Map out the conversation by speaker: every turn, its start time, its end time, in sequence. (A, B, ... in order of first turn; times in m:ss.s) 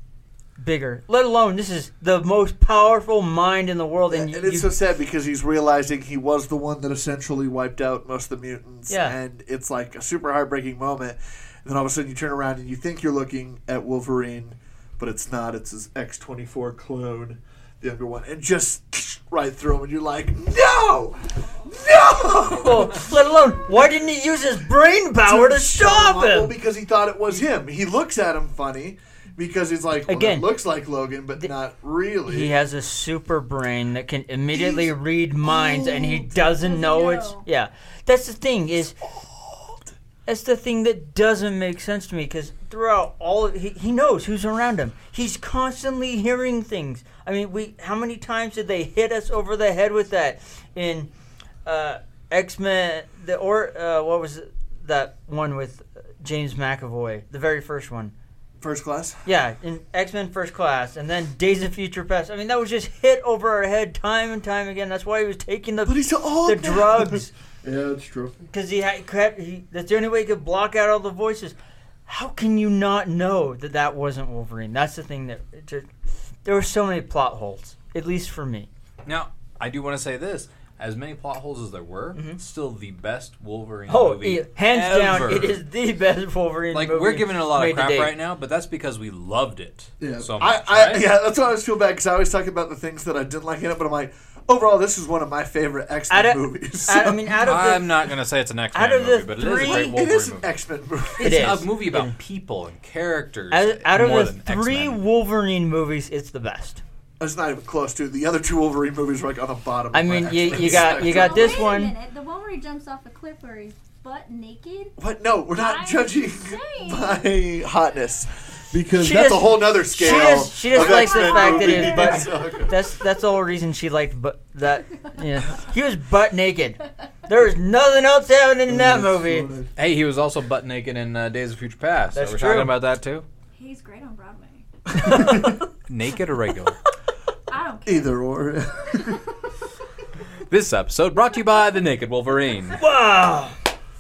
0:00.6-0:04.7 A
0:04.1-0:23.0 B
0:08.9-0:09.2 A
0:22.5-0:26.6 A
0:25.2-0:32.5 B
0:30.1-0:30.5 A
0:32.2-0:39.0 A
0:34.5-0:34.9 B
0:35.4-0:37.4 C
0:39.0-0:39.9 B
0:40.2-0:51.1 A
0:51.6-0:58.1 A
0:58.6-0:59.2 B
0:59.2-1:07.3 A
1:05.8-1:08.4 B
1:08.5-1:18.7 A
1:19.0-1:25.6 D
1:23.9-1:28.2 A
1:26.7-1:31.1 D
1:30.0-1:37.3 B
1:36.1-1:37.9 A
1:37.4-1:40.5 D
1:38.7-1:40.0 A
1:39.5-1:41.5 B
1:41.1-1:45.0 D
1:41.2-1:42.1 A
1:43.5-1:46.8 A
1:47.2-1:51.6 B
1:49.9-1:51.9 A
1:50.7-1:55.0 C
1:55.0-2:02.7 B
1:55.5-1:57.4 C
1:58.9-2:09.5 A
2:00.2-2:02.6 C
2:08.7-2:09.7 B
2:09.8-2:13.2 D
2:12.1-2:12.8 A
2:13.5-2:14.6 C
2:14.9-2:15.6 A
2:15.0-2:15.6 B
2:15.9-2:16.8 D
2:17.5-2:19.1 C
2:17.8-2:19.2 B
2:20.5-2:22.8 D
2:22.7-2:23.6 A